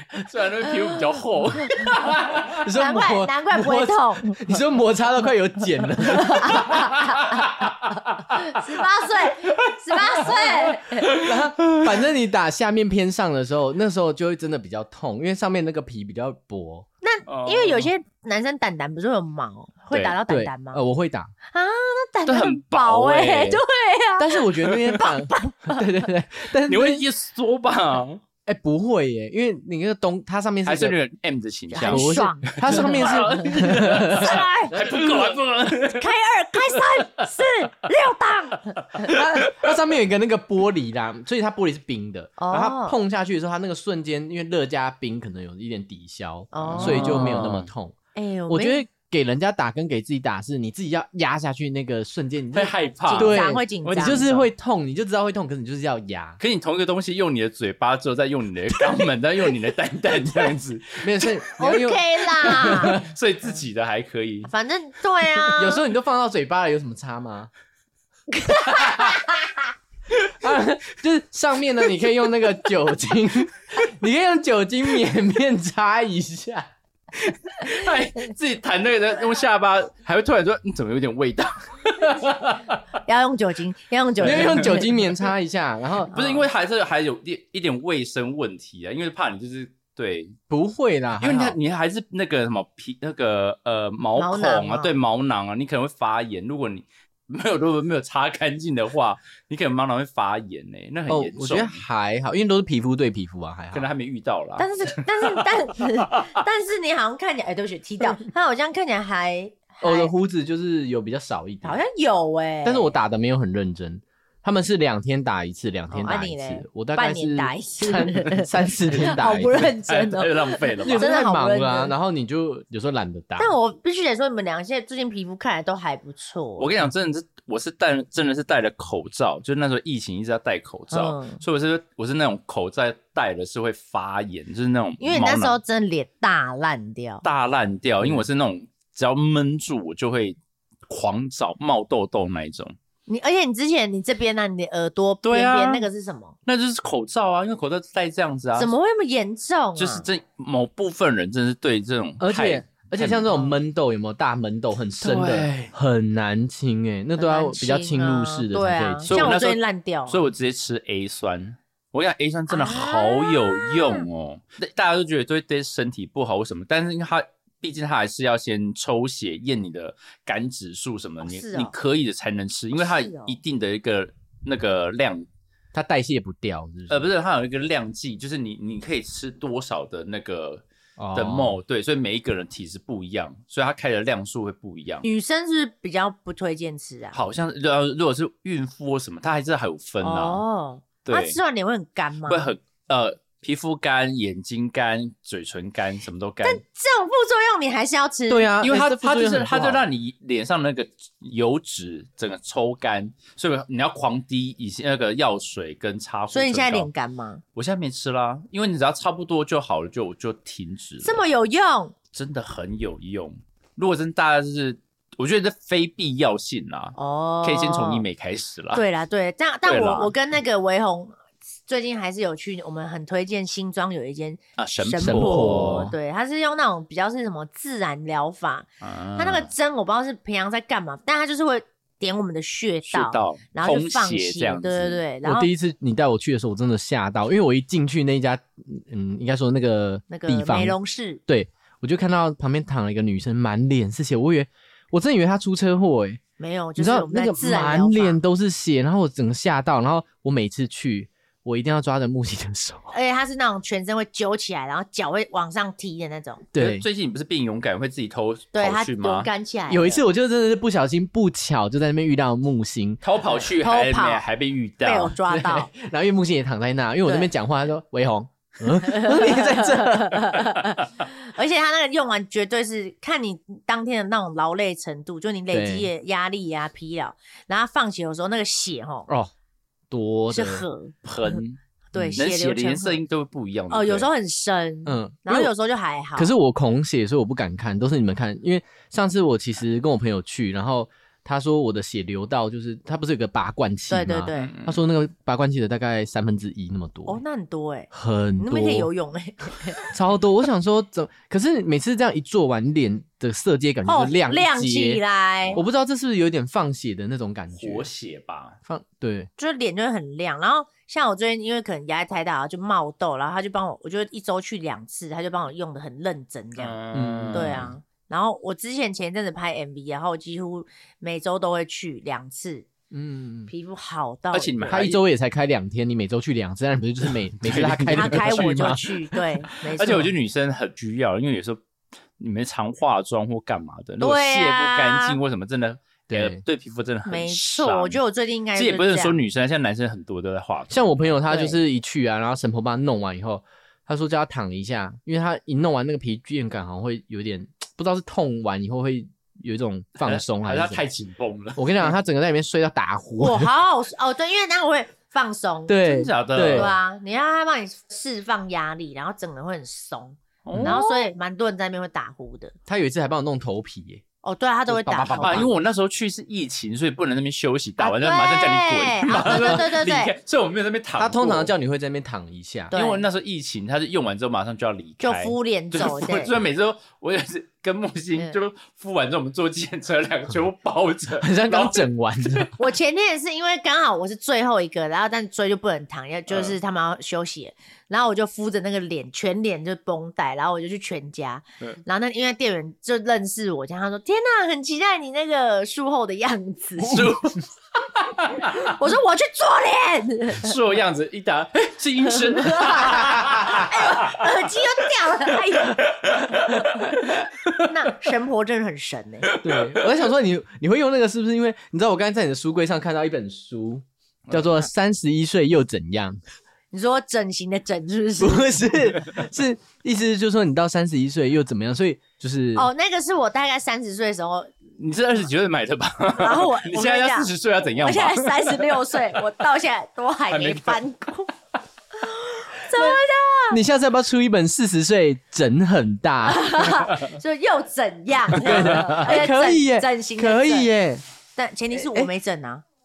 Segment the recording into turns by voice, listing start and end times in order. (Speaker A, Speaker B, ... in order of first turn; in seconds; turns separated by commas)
Speaker A: 0.1-2.6, Speaker B: 2.5-6.8, Speaker C: 2.8-4.3, Speaker C: 6.1-7.5, Speaker A: 6.7-8.2, Speaker C: 8.3-11.1, Speaker A: 9.7-12.0, Speaker B: 11.1-16.9, Speaker C: 17.0-20.8, Speaker A: 17.3-17.9, Speaker A: 19.9-20.2, Speaker B: 20.3-21.3, Speaker C: 21.5-25.9, Speaker A: 22.3-23.6, Speaker B: 24.2-27.0, Speaker A: 24.7-25.0, Speaker A: 26.7-28.2, Speaker B: 28.4-31.0, Speaker A: 30.6-36.1, Speaker C: 31.7-34.8, Speaker B: 31.9-35.3, Speaker C: 35.9-39.1, Speaker A: 39.0-39.5, Speaker B: 39.0-48.0, Speaker C: 42.4-43.0, Speaker C: 46.5-47.4, Speaker A: 46.6-47.7, Speaker C: 48.1-48.8, Speaker B: 48.5-56.4, Speaker A: 52.5-54.5, Speaker C: 53.1-54.3, Speaker A: 56.4-61.1, Speaker B: 61.0-63.0, Speaker C: 61.6-63.0, Speaker A: 62.5-64.5, Speaker C: 64.5-65.8, Speaker B: 65.6-67.5, Speaker C: 68.3-69.6, Speaker A: 68.7-69.2, Speaker B: 70.4-76.7, Speaker A: 77.5-82.8, Speaker C: 83.1-84.9, Speaker A: 84.2-84.8, Speaker B: 84.2-86.2, Speaker A: 86.1-90.4, Speaker C: 86.1-86.4, Speaker B: 90.5-91.6, Speaker A: 91.2-101.8, Speaker C: 94.2-94.9, Speaker B: 101.1-103.9, Speaker A: 103.7-104.7, Speaker C: 104.6-110.1, Speaker A: 105.2-106.3, Speaker B: 109.8-111.8, Speaker C: 111.6-113.0, Speaker B: 112.6-119.7, Speaker C: 115.9-121.9, Speaker A: 119.5-121.1, Speaker B: 120.8-123.5, Speaker C: 123.4-126.7, Speaker A: 126.6-135.6, Speaker C: 130.9-131.4, Speaker C: 135.0-137.2, Speaker A: 137.2-142.8, Speaker C: 143.1-146.3, Speaker A: 145.2-145.9, Speaker A: 146.5-148.7, Speaker C: 148.6-150.1, Speaker A: 149.8-153.3, Speaker B: 152.2-159.3, Speaker A: 155.0-155.7, Speaker C: 157.2-160.2, Speaker A: 159.1-175.3, Speaker C: 162.5-164.1, Speaker C: 171.2-171.8, Speaker C: 172.8-173.4, Speaker B: 175.7-177.1, Speaker A: 176.9-180.6, Speaker B: 181.0-181.6, Speaker A: 181.2-185.1, Speaker C: 185.0-187.2, Speaker A: 187.1-190.4, Speaker C: 190.0-192.5, Speaker A: 191.1-191.4, Speaker A: 192.3-196.6, Speaker C: 196.4-198.5, Speaker B: 198.3-199.9, Speaker A: 198.6-206.9, Speaker C: 206.3-207.4, Speaker A: 207.6-211.2, Speaker C: 211.0-211.9, Speaker A: 212.1-218.8, Speaker C: 217.0-218.1, Speaker C: 218.7-235.5, Speaker A: 219.7-220.1, Speaker A: 224.6-225.9, Speaker B: 225.0-225.9, Speaker A: 228.8-229.5, Speaker A: 232.9-235.0, Speaker B: 235.2-240.8, Speaker C: 240.1-241.2, Speaker B: 241.3-246.2, Speaker C: 246.4-248.2, Speaker B: 246.8-252.9, Speaker C: 252.9-256.4, Speaker B: 256.5-256.9, Speaker A: 256.6-259.3, Speaker C: 258.5-260.0, Speaker B: 259.7-263.0, Speaker A: 263.0-265.2, Speaker C: 263.6-264.2, Speaker C: 264.8-265.7, Speaker B: 265.4-270.4, Speaker C: 267.1-267.3, Speaker C: 268.8-279.1, Speaker B: 275.5-275.9, Speaker B: 279.9-280.6, Speaker C: 280.3-281.4, Speaker A: 281.1-281.6, Speaker C: 281.9-283.0, Speaker A: 282.2-284.1, Speaker C: 283.7-286.3, Speaker B: 284.9-285.5, Speaker B: 286.2-297.2, Speaker C: 293.9-294.5, Speaker A: 294.4-294.8, Speaker C: 297.1-299.8, Speaker B: 297.9-298.9, Speaker B: 299.8-305.0, Speaker C: 303.9-305.6, Speaker B: 305.5-307.9, Speaker A: 307.6-308.6, Speaker B: 308.7-309.3, Speaker C: 309.4-316.8, Speaker A: 316.6-317.7, Speaker B: 316.9-317.7, Speaker C: 317.3-322.7, Speaker B: 322.9-323.5, Speaker C: 323.5-324.9, Speaker A: 324.3-325.0, Speaker B: 324.7-329.2, Speaker A: 327.4-328.8, Speaker C: 327.9-330.1, Speaker B: 329.7-330.1, Speaker A: 329.8-331.6, Speaker A: 332.2-338.0, Speaker C: 334.0-335.2, Speaker B: 336.1-336.4, Speaker C: 337.1-339.2, Speaker A: 338.6-340.9, Speaker B: 340.7-350.9, Speaker C: 341.3-341.6, Speaker A: 350.0-351.7, Speaker B: 351.6-353.5, Speaker C: 353.2-355.8, Speaker B: 355.7-356.7, Speaker A: 355.8-356.8, Speaker C: 356.4-362.6, Speaker A: 360.4-360.9, Speaker B: 360.5-360.8, Speaker B: 362.7-364.0, Speaker C: 364.2-365.5, Speaker B: 364.7-365.5, Speaker A: 365.1-371.5, Speaker C: 367.8-370.1, Speaker B: 369.2-369.6, Speaker B: 371.0-372.7, Speaker C: 372.7-373.1, Speaker A: 372.7-382.5, Speaker C: 375.0-376.3, Speaker B: 381.2-382.5, Speaker C: 382.6-397.1, Speaker A: 386.3-386.6, Speaker A: 396.8-397.4, Speaker A: 398.0-398.7, Speaker C: 398.5-400.5, Speaker A: 400.3-404.2, Speaker C: 402.1-405.8, Speaker B: 403.0-403.6, Speaker A: 405.6-407.6, Speaker C: 407.6-409.3, Speaker A: 409.3-409.8, Speaker B: 409.4-416.2, Speaker C: 416.7-418.6, Speaker B: 418.2-422.7, Speaker C: 422.6-424.5, Speaker A: 424.8-428.8, Speaker C: 426.2-431.3, Speaker A: 430.3-430.9, Speaker C: 432.0-433.6, Speaker B: 433.5-436.7, Speaker C: 436.3-440.7, Speaker B: 438.4-441.0, Speaker A: 438.4-439.0, Speaker C: 441.4-442.6, Speaker B: 441.8-442.1